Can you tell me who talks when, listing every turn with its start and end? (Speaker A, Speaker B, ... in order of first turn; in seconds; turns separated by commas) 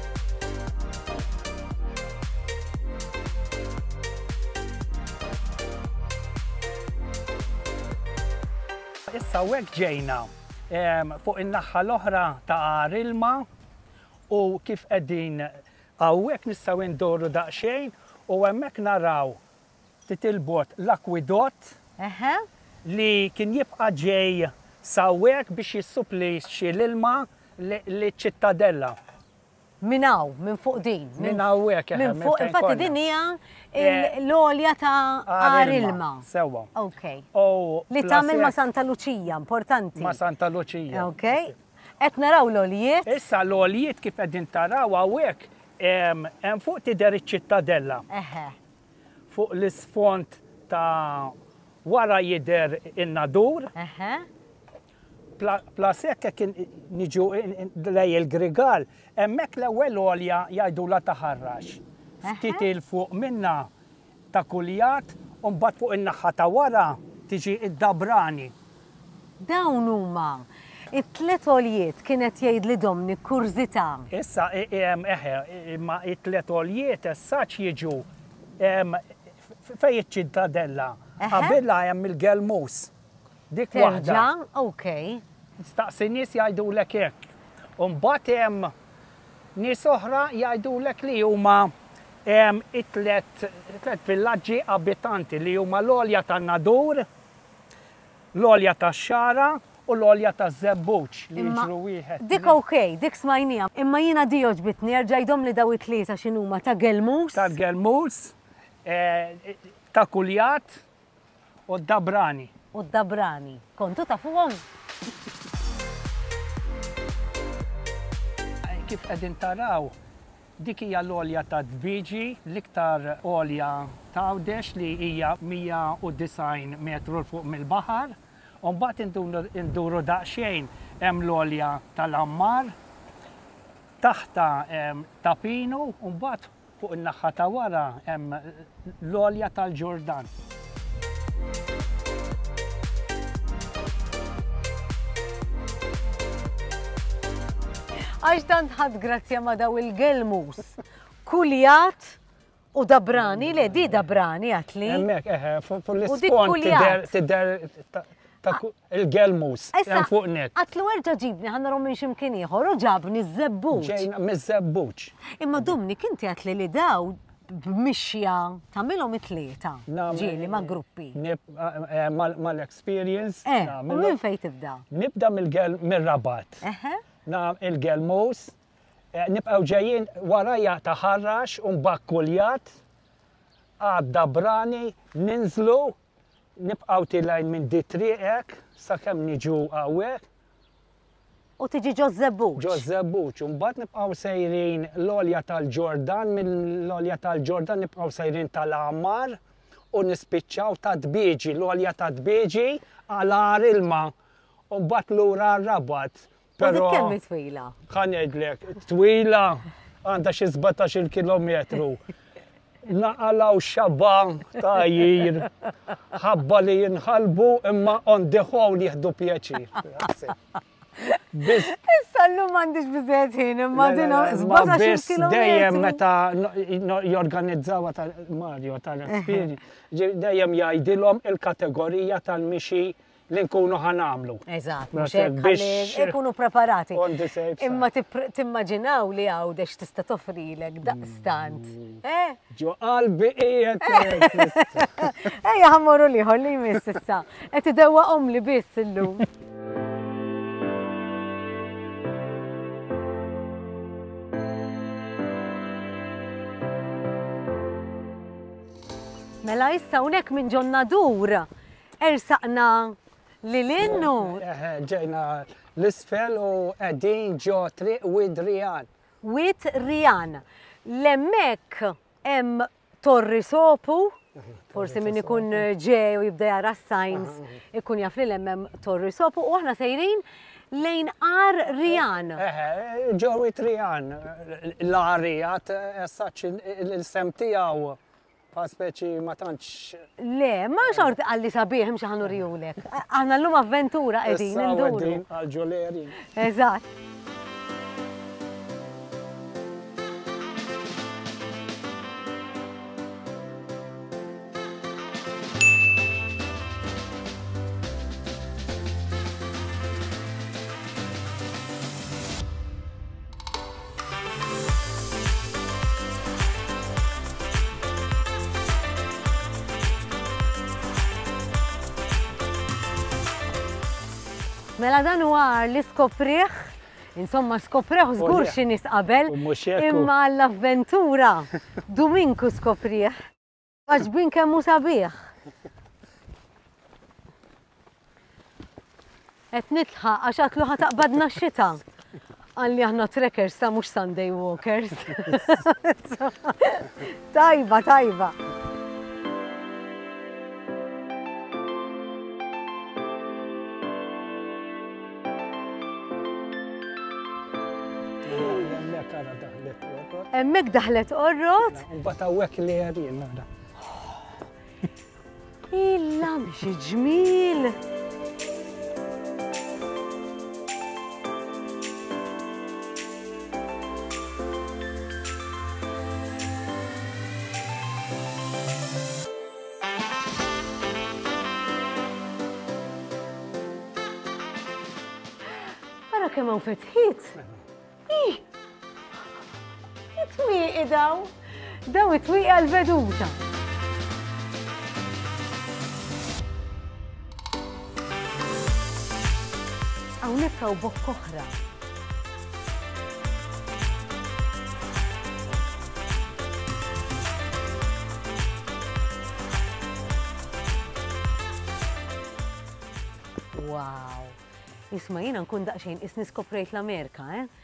Speaker A: 9.1-13.5, Speaker A: 14.3-19.4, Speaker A: 20.1-21.8, Speaker B: 22.0-22.4, Speaker A: 22.8-29.0, Speaker B: 29.8-37.2, Speaker A: 31.2-33.0, Speaker A: 33.8-34.1, Speaker A: 35.3-36.7, Speaker A: 37.3-38.6, Speaker B: 37.9-40.2, Speaker A: 40.0-41.5, Speaker B: 40.9-43.1, Speaker A: 43.0-48.0, Speaker B: 48.1-48.5, Speaker A: 49.3-53.7, Speaker B: 53.8-54.2, Speaker A: 55.4-63.7, Speaker B: 62.2-62.6, Speaker A: 64.3-68.5, Speaker B: 69.4-74.1, Speaker A: 74.1-78.0, Speaker A: 78.6-82.9, Speaker B: 81.2-81.6, Speaker A: 83.5-84.3, Speaker B: 83.7-85.2, Speaker A: 85.6-88.7, Speaker A: 89.5-91.7, Speaker A: 92.2-97.1, Speaker A: 98.3-102.6, Speaker B: 101.3-107.5, Speaker A: 107.3-110.8, Speaker A: 111.7-112.5, Speaker B: 112.7-114.6, Speaker A: 118.7-119.9, Speaker A: 120.6-132.7, Speaker A: 134.0-140.3, Speaker B: 148.2-152.2, Speaker B: 152.7-155.1, Speaker A: 153.3-154.0, Speaker A: 154.8-160.5, Speaker B: 156.1-157.1, Speaker B: 159.7-164.1, Speaker A: 163.7-165.1, Speaker B: 165.4-171.2, Speaker A: 169.9-174.2, Speaker B: 173.4-174.8, Speaker A: 174.9-176.6, Speaker B: 176.6-177.0, Speaker A: 177.2-178.5, Speaker A: 179.1-182.7, Speaker A: 183.8-185.9, Speaker A: 186.6-190.2, Speaker B: 191.6-192.8, Speaker A: 192.6-199.4, Speaker A: 199.9-204.1, Speaker A: 204.7-207.2, Speaker B: 206.6-207.7, Speaker A: 207.9-212.0, Speaker A: 212.8-215.5, Speaker A: 216.1-220.3, Speaker B: 221.0-226.0, Speaker A: 221.3-221.7, Speaker A: 223.7-236.2, Speaker B: 229.1-229.4, Speaker B: 234.4-237.1, Speaker A: 236.9-237.8, Speaker B: 237.6-242.4, Speaker A: 242.5-244.9, Speaker B: 243.8-249.2, Speaker B: 259.4-261.5, Speaker B: 262.0-264.4, Speaker A: 263.8-268.9, Speaker B: 269.2-274.1, Speaker A: 274.7-275.7, Speaker B: 274.7-282.4, Speaker A: 281.8-288.0, Speaker A: 288.5-290.1, Speaker B: 290.2-295.2, Speaker A: 290.9-291.1, Speaker A: 294.2-296.2, Speaker B: 296.2-296.9, Speaker B: 324.8-333.2, Speaker A: 328.2-328.6, Speaker A: 329.2-330.1, Speaker B: 333.9-335.1, Speaker B: 339.5-341.8, Speaker B: 342.6-348.4, Speaker A: 358.2-360.3, Speaker B: 360.3-361.8, Speaker A: 361.7-363.5, Speaker B: 365.7-367.8, Speaker B: 386.1-387.4, Speaker B: 388.1-388.4, Speaker B: 390.1-391.3, Speaker B: 391.9-393.4, Speaker B: 400.2-401.6, Speaker B: 413.5-414.4, Speaker B: 414.9-417.5